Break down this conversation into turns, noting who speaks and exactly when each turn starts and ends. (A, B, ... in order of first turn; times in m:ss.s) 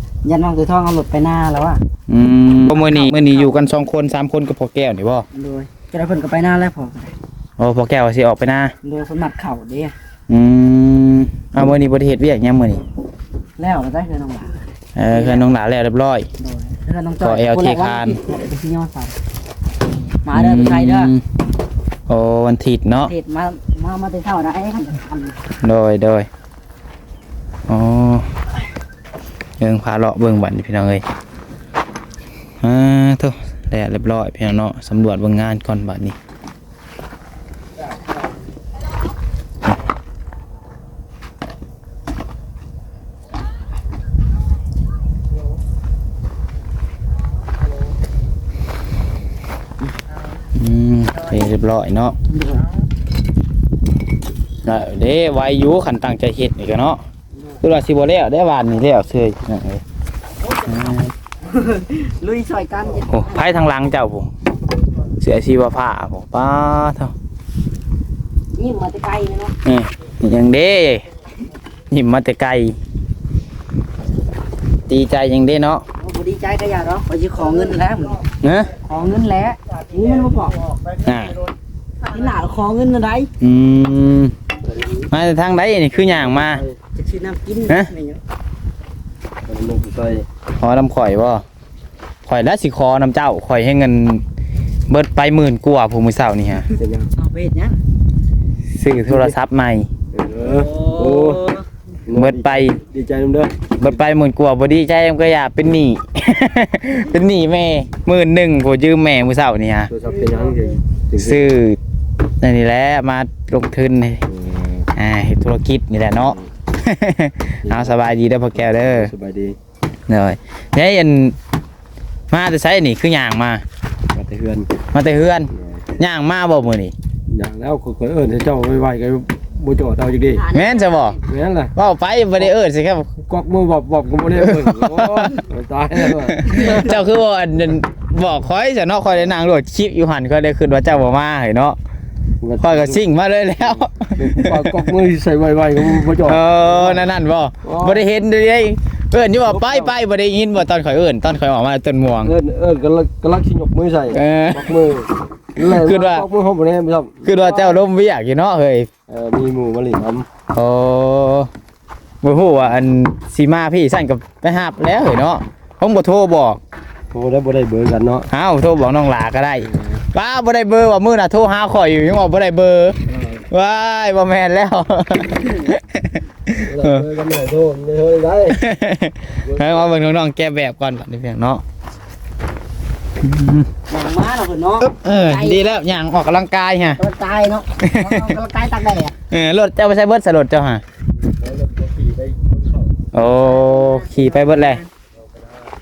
0:00.2-0:01.8 A
0:02.1-0:05.2 B
0:02.7-0:03.6 A
0:05.3-0:07.1 A
0:07.6-0:08.7 B
0:08.8-0:10.0 A
0:10.3-0:12.8 B
0:13.6-0:15.5 A
0:15.0-0:16.3 B
0:16.4-0:19.2 A
0:17.2-0:18.2 B
0:20.2-0:21.1 A
0:20.3-0:21.2 B
0:22.1-0:23.1 B
0:23.1-0:25.4 A
0:25.6-0:26.3 B
0:27.7-0:28.4 B
0:29.6-0:31.0 B
0:32.6-0:36.2 B
0:50.6-0:52.2 B
0:52.3-0:52.7 A
0:54.6-0:57.0 B
0:57.6-0:59.8 B
1:00.6-1:01.1 B
1:01.4-1:03.5 A
1:03.1-1:04.3 B
1:05.2-1:07.1 B
1:08.6-1:09.5 A
1:09.6-1:11.1 B
1:11.9-1:12.8 B
1:14.9-1:15.8 B
1:16.0-1:18.2 A
1:18.4-1:18.7 B
1:18.8-1:20.6 A
1:21.0-1:21.4 B
1:22.0-1:23.3 A
1:23.4-1:24.3 B
1:24.6-1:25.1 C
1:25.1-1:26.6 B
1:25.9-1:26.8 C
1:27.0-1:28.2 A
1:29.5-1:30.3 C
1:30.6-1:31.4 B
1:32.3-1:34.2 B
1:34.9-1:36.7 B
1:36.7-1:37.8 A
1:36.8-1:37.1 C
1:38.8-1:39.9 B
1:39.1-1:39.3 C
1:40.1-1:41.5 C
1:40.6-1:41.6 A
1:42.1-1:44.0 C
1:42.2-1:42.8 B
1:43.8-1:49.9 B
1:49.9-1:51.6 C
1:51.2-1:51.8 B
1:52.4-1:54.2 B
1:54.3-1:54.9 C
1:54.9-1:59.1 B
1:56.2-1:56.5 C
1:57.6-1:59.6 C
2:00.1-2:01.4 B
2:02.3-2:03.6 B
2:04.1-2:04.7 C
2:04.9-2:06.9 B
2:05.5-2:05.8 C
2:07.3-2:10.4 C
2:10.4-2:11.2 A
2:10.5-2:11.2 B
2:11.3-2:11.7 C
2:11.8-2:13.1 B
2:13.3-2:17.0 C
2:14.4-2:15.4 B
2:16.1-2:21.8 B
2:22.4-2:23.0 C
2:22.6-2:24.9 B
2:23.8-2:27.0 C
2:25.9-2:32.3 B
2:27.6-2:28.1 C
2:29.4-2:30.0 C
2:32.2-2:37.8 C
2:34.1-2:34.8 B
2:35.6-2:36.3 B
2:37.2-2:38.9 B
2:39.1-2:40.3 C
2:40.5-2:41.5 B
2:42.2-2:46.6 B
2:47.1-2:48.3 C
2:48.3-2:53.0 B
2:49.6-2:50.0 C
2:53.1-2:53.4 C
2:53.5-2:57.0 B
2:56.6-2:58.6 C
2:58.5-3:01.6 B
2:59.4-2:59.9 C
3:03.2-3:03.7 B
3:03.9-3:05.6 A
3:04.8-3:07.0 B
3:07.0-3:09.2 A
3:07.8-3:08.4 B
3:09.3-3:10.8 B
3:11.1-3:13.0 C
3:13.1-3:14.8 B
3:13.3-3:14.9 A
3:15.2-3:15.7 C